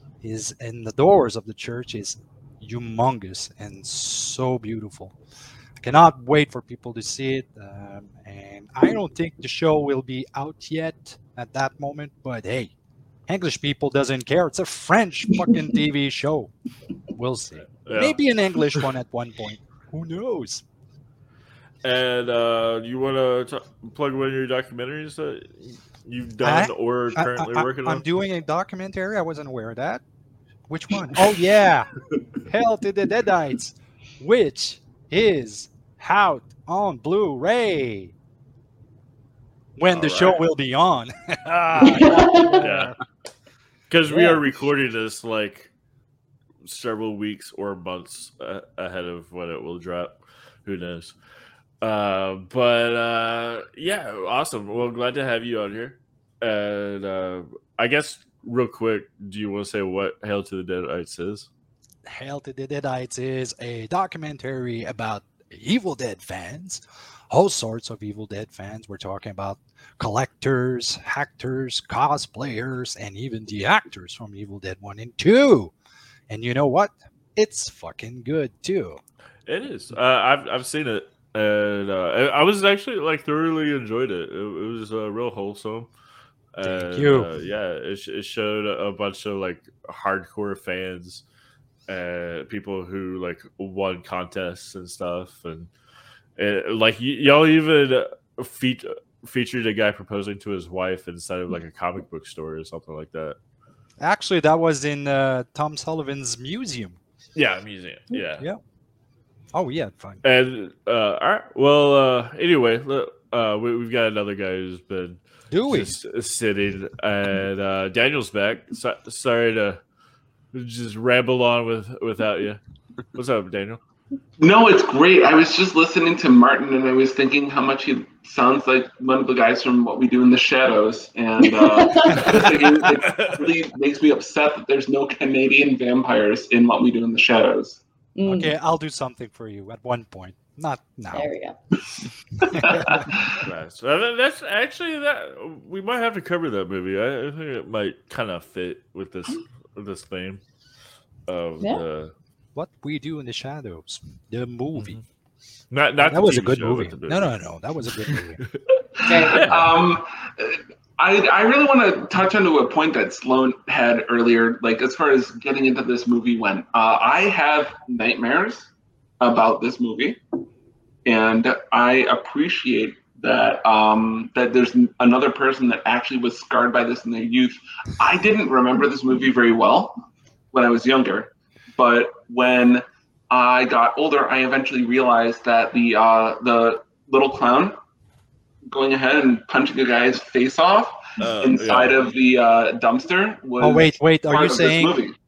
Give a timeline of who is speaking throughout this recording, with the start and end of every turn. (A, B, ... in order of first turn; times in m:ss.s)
0:00.2-0:05.2 A
0:05.8-0:12.7 A
0:13.3-0:16.5 A
0:17.1-0:20.6 A
0:17.8-0:18.2 B
0:21.8-0:28.0 B
0:26.4-0:30.0 A
0:30.7-0:38.1 A
0:39.8-0:42.9 A
0:39.9-0:40.4 B
0:41.8-0:42.6 C
0:42.6-0:42.9 B
0:43.9-0:45.7 B
0:44.1-0:44.4 A
0:46.6-0:51.2 B
0:51.8-1:01.5 B
1:02.0-1:15.7 A
1:16.3-1:19.0 A
1:19.4-1:25.9 B
1:26.5-1:31.2 B
1:26.6-1:27.3 A
1:31.9-1:35.7 B
1:36.4-1:43.4 B
1:44.0-1:47.0 A
1:47.3-1:48.5 B
1:49.5-1:50.2 A
1:50.2-1:59.8 B
1:55.5-1:55.9 A
2:00.5-2:02.6 B
2:03.1-2:03.8 B
2:04.4-2:17.8 D
2:11.4-2:12.3 C
2:12.2-2:13.5 B
2:18.2-2:18.5 C
2:18.2-2:21.3 A
2:21.1-2:21.6 C
2:21.9-2:23.4 D
2:22.4-2:23.1 A
2:23.4-2:30.4 B
2:31.3-2:32.1 B
2:32.5-2:35.0 A
2:34.7-2:35.0 B
2:35.7-2:37.4 B
2:36.0-2:38.4 A
2:38.0-2:38.6 B
2:39.0-2:48.7 D
2:39.0-2:39.4 C
2:39.3-2:39.8 B
2:49.2-2:50.2 D
2:51.0-3:07.8 D
3:08.7-3:15.2 D
3:11.2-3:12.0 B
3:13.6-3:15.0 A